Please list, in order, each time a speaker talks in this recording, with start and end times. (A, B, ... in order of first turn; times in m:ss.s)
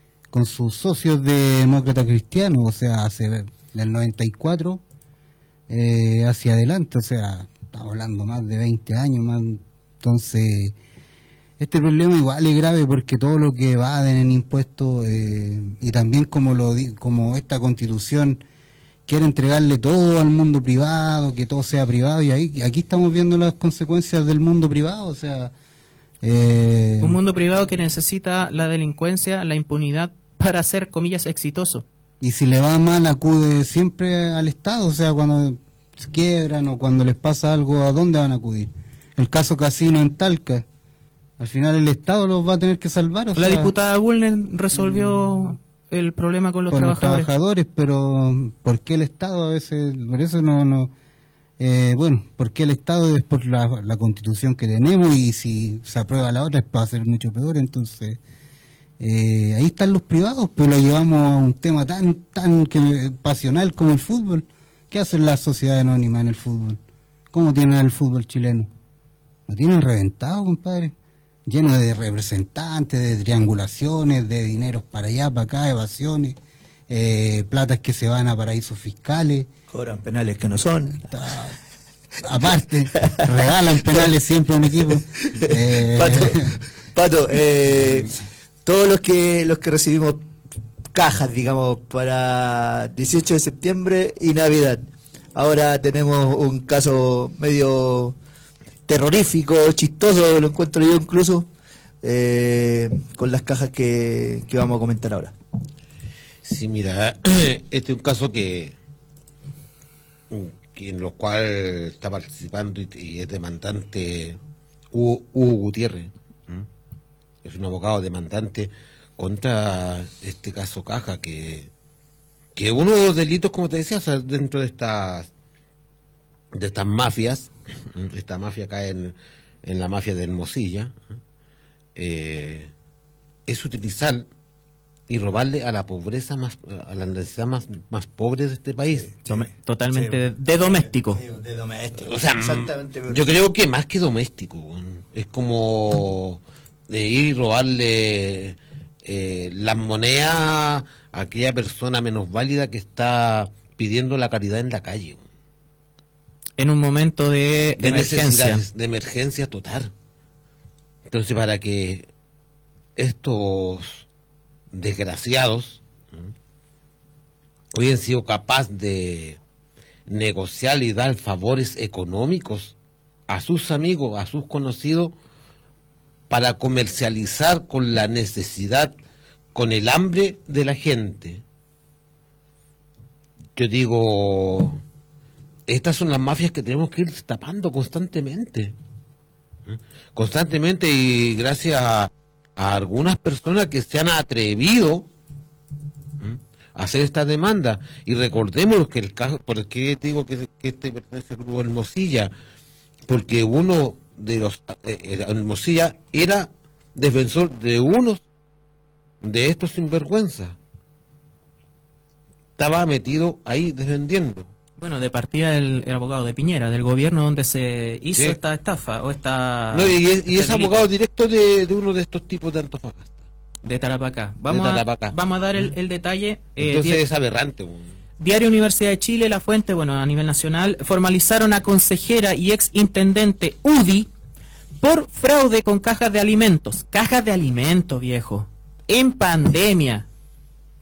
0:00.3-0:04.8 A
0:05.7-0:10.8 A
0:11.6-0:18.4 A
0:19.1-0:25.5 A
0:26.2-0:27.2 A
0:27.0-0:31.8 B
0:32.2-0:40.6 A
0:41.4-0:43.7 A
0:43.4-0:47.3 B
0:46.7-0:50.9 A
0:51.6-0:58.2 A
0:59.0-1:06.8 A
1:07.3-1:08.7 A
1:09.5-1:10.9 A
1:11.4-1:16.4 A
1:16.9-1:19.5 A
1:19.7-1:21.1 C
1:21.0-1:21.6 A
1:22.2-1:26.6 A
1:25.2-1:30.3 C
1:30.9-1:38.2 C
1:38.9-1:41.5 C
1:42.0-1:45.3 C
1:46.4-1:48.7 D
1:50.3-1:54.4 D
1:54.9-1:56.6 D
1:57.4-2:01.7 D
2:02.6-2:05.3 D
2:06.5-2:10.9 D
2:12.0-2:12.7 D
2:13.5-2:14.2 D
2:15.1-2:19.2 D
2:19.0-2:23.3 C
2:19.3-2:21.2 B
2:22.0-2:35.2 D
2:36.6-2:38.6 B
2:37.8-2:39.9 D
2:41.1-2:42.0 D
2:43.0-2:44.0 D
2:44.7-2:46.3 D
2:47.7-2:49.4 D
2:50.1-2:52.7 D
2:53.3-2:55.1 D
2:56.3-2:58.9 D
2:59.5-3:01.4 D
3:03.6-3:04.8 D
3:05.7-3:08.7 D
3:09.7-3:15.1 D
3:16.2-3:22.3 D
3:23.1-3:28.2 D
3:29.2-3:30.6 D
3:32.6-3:34.5 D
3:34.8-3:40.9 B
3:39.7-3:43.2 D
3:43.6-3:47.0 B
3:44.5-3:45.2 D
3:46.6-3:47.9 D
3:48.2-3:54.1 B
3:54.8-4:00.1 B